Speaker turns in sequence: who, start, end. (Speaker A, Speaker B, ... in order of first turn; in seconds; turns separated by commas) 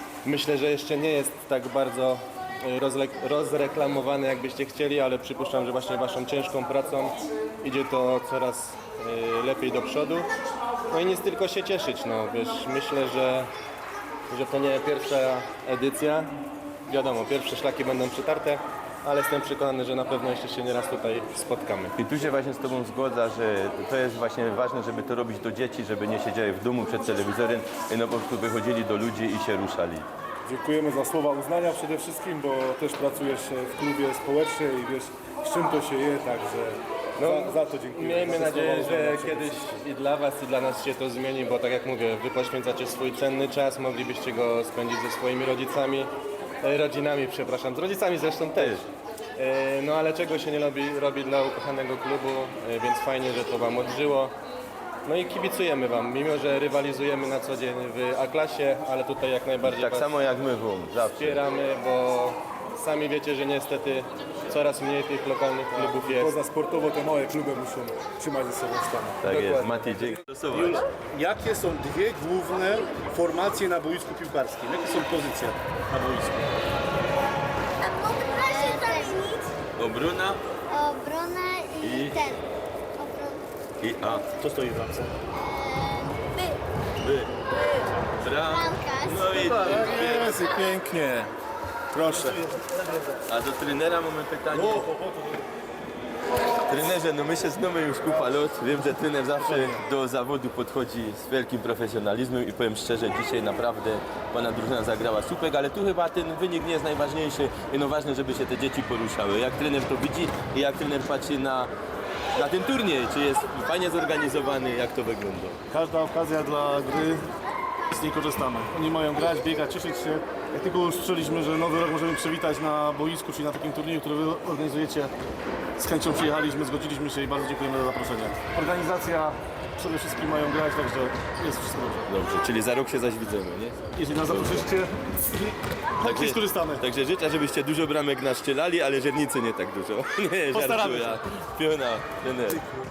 Speaker A: 0.2-10.3, Speaker A: 10.9-13.5, Speaker A: 14.3-16.4, Speaker A: 16.9-21.9, Speaker B: 22.0-30.1, Speaker C: 30.5-39.8, Speaker A: 37.2-46.1, Speaker A: 46.6-48.9, Speaker B: 48.5-48.9, Speaker A: 49.4-54.3, Speaker A: 55.0-60.2, Speaker B: 59.6-61.4, Speaker A: 61.1-66.3, Speaker C: 65.7-66.7, Speaker D: 66.5-67.5, Speaker C: 67.2-69.2, Speaker D: 68.4-76.5, Speaker B: 69.2-70.9, Speaker E: 77.8-79.4, Speaker B: 79.8-80.4, Speaker E: 80.8-82.2, Speaker B: 81.8-82.2, Speaker B: 83.8-84.3, Speaker D: 84.4-85.1, Speaker E: 85.6-86.6, Speaker B: 87.0-87.3, Speaker B: 88.2-90.5, Speaker E: 88.5-89.2, Speaker D: 89.3-89.8, Speaker C: 89.8-91.3, Speaker C: 91.9-92.4, Speaker D: 92.0-93.0, Speaker B: 93.3-94.9, Speaker D: 94.5-95.4, Speaker B: 96.7-111.7, Speaker D: 99.4-99.8, Speaker B: 112.3-115.6, Speaker D: 115.7-117.3, Speaker D: 117.9-125.1, Speaker D: 125.8-132.0, Speaker B: 132.1-134.7, Speaker D: 134.0-136.8, Speaker B: 136.0-142.6, Speaker D: 140.5-141.2